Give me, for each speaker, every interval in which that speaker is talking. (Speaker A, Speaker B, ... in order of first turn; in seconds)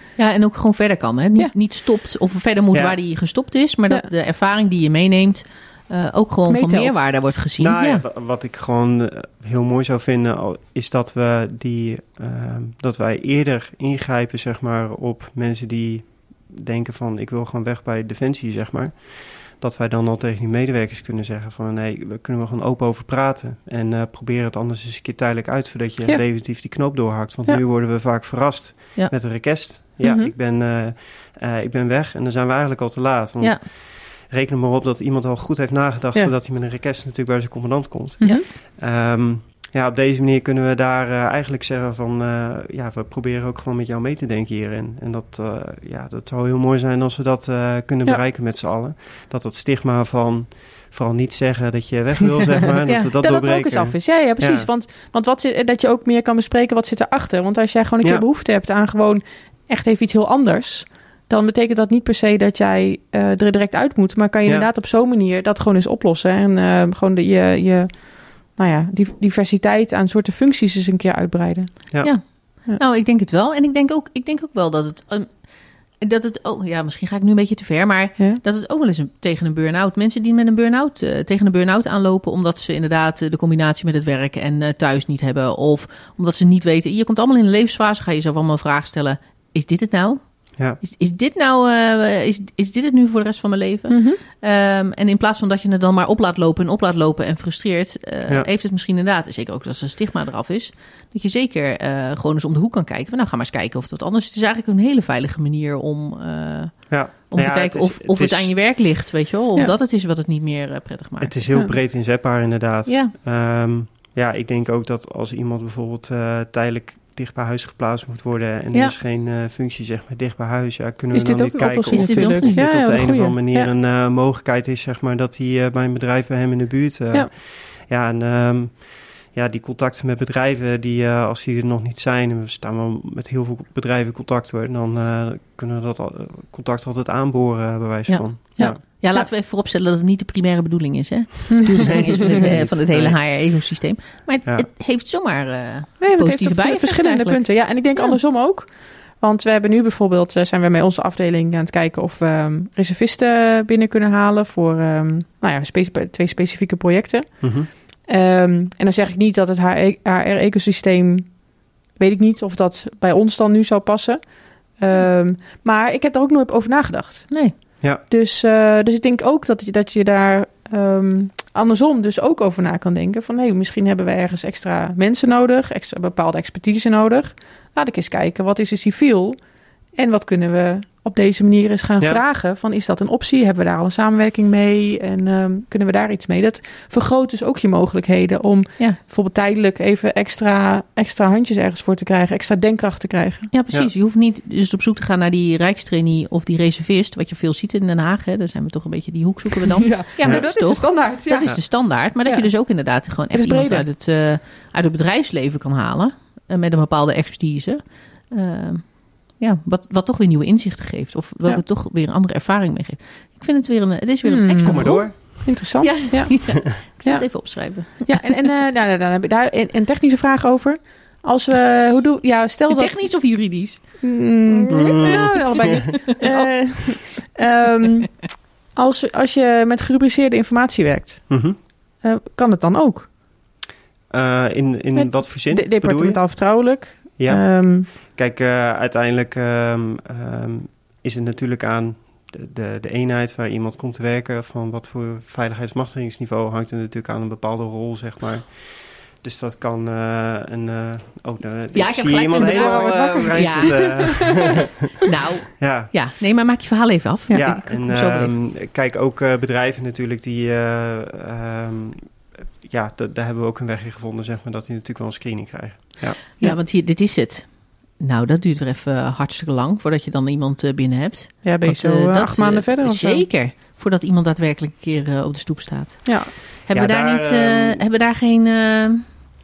Speaker A: 0.2-8.0, 28.9-29.7, 33.4-33.6, 72.0-111.6, 112.9-113.1, 121.1-122.6, 138.1-148.2, 193.5-218.3, 222.7-227.0, 251.7-254.5, 255.1-258.3, 266.4-279.2
Speaker B: 2.7-3.0, 7.6-54.7, 106.9-108.5, 111.2-138.8, 142.1-143.2, 157.4-157.7, 214.6-215.6, 224.7-225.7, 231.3-231.6, 234.1-254.6, 255.6-255.9, 257.3-266.2, 276.7-277.8
Speaker C: 6.5-7.0, 30.0-30.3, 38.2-38.5, 53.0-72.8, 93.9-94.2, 121.5-123.7, 141.6-141.9, 146.0-193.5, 199.8-203.8, 214.2-233.1, 234.9-237.9, 252.3-254.4, 271.4-273.2, 276.0-276.3